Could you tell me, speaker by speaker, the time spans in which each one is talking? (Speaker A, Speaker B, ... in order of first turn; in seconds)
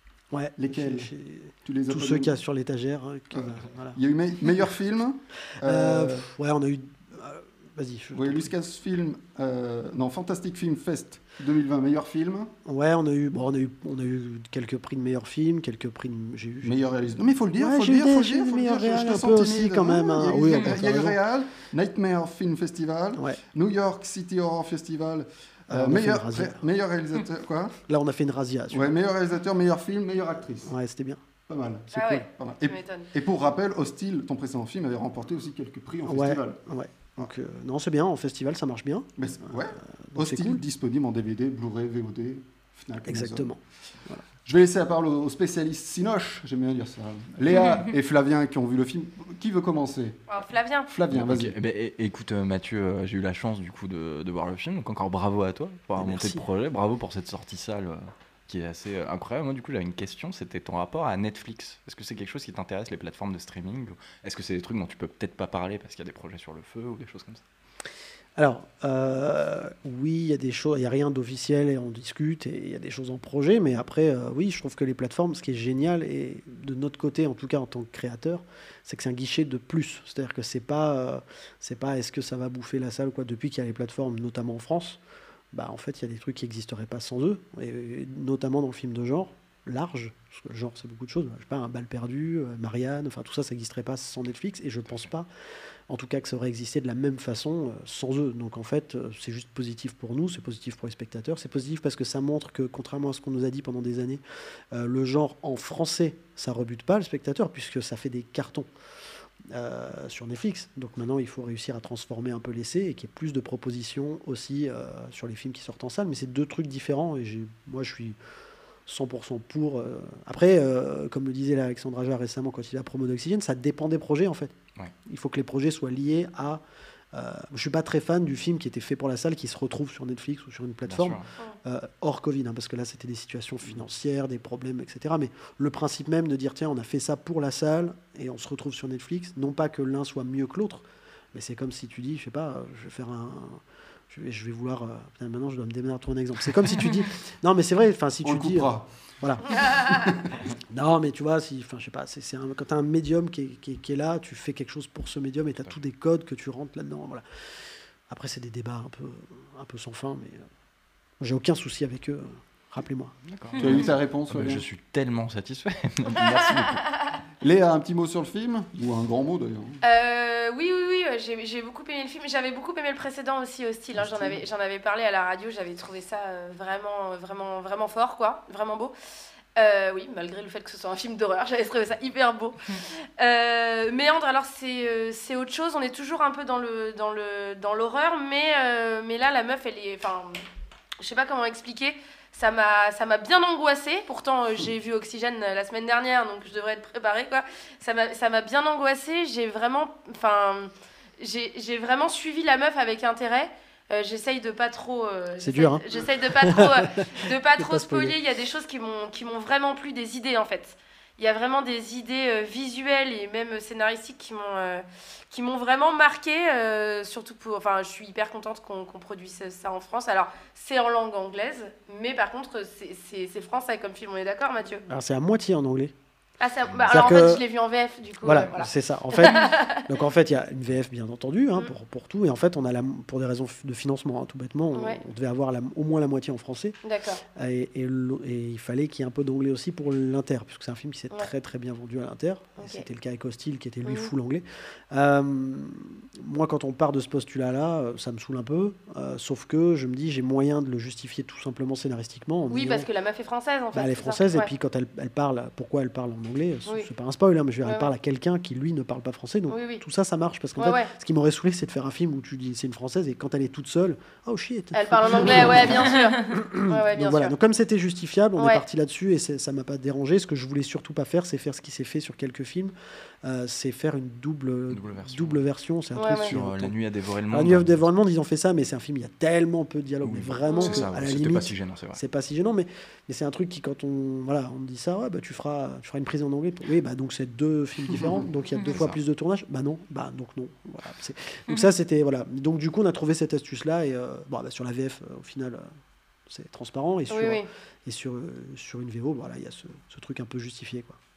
Speaker A: 0.3-4.0, 5.6-8.5, 12.6-16.9, 17.5-21.2, 25.7-26.6, 27.9-28.9, 30.6-31.2, 31.9-32.2, 36.0-40.6, 43.0-44.2, 56.0-56.5, 68.4-85.0, 85.5-95.3, 95.9-108.7, 109.5-118.2, 118.9-124.5, 125.0-126.6, 127.1-149.8, 150.7-157.2, 158.1-160.4, 161.2-163.1, 205.4-208.2, 224.9-225.9, 226.9-227.4, 228.2-236.8, 237.3-252.9, 253.7-276.8, 277.3-295.7, 296.3-301.0
Speaker B: 0.6-1.1, 1.6-2.3, 3.3-6.2, 8.1-12.5, 16.6-27.8, 28.7-30.7, 31.5-36.6, 39.2-43.5, 44.4-50.2, 50.9-51.5, 148.2-148.9, 149.6-150.4, 163.6-164.6, 167.4-169.8, 173.9-174.4
Speaker C: 31.9-33.1, 50.3-50.9, 169.8-178.9, 179.6-190.4, 191.0-224.8, 226.4-229.8, 234.7-235.0, 236.8-237.2, 242.6-242.8, 243.8-244.1, 252.5-254.5, 257.6-257.9, 259.5-259.8, 260.6-260.9, 264.7-267.3, 268.4-268.6, 275.9-276.3, 280.5-280.8, 297.1-297.5
Speaker D: 51.1-67.4, 130.8-131.2, 163.2-166.8, 274.7-275.4, 276.2-277.8, 280.0-282.0, 288.7-289.0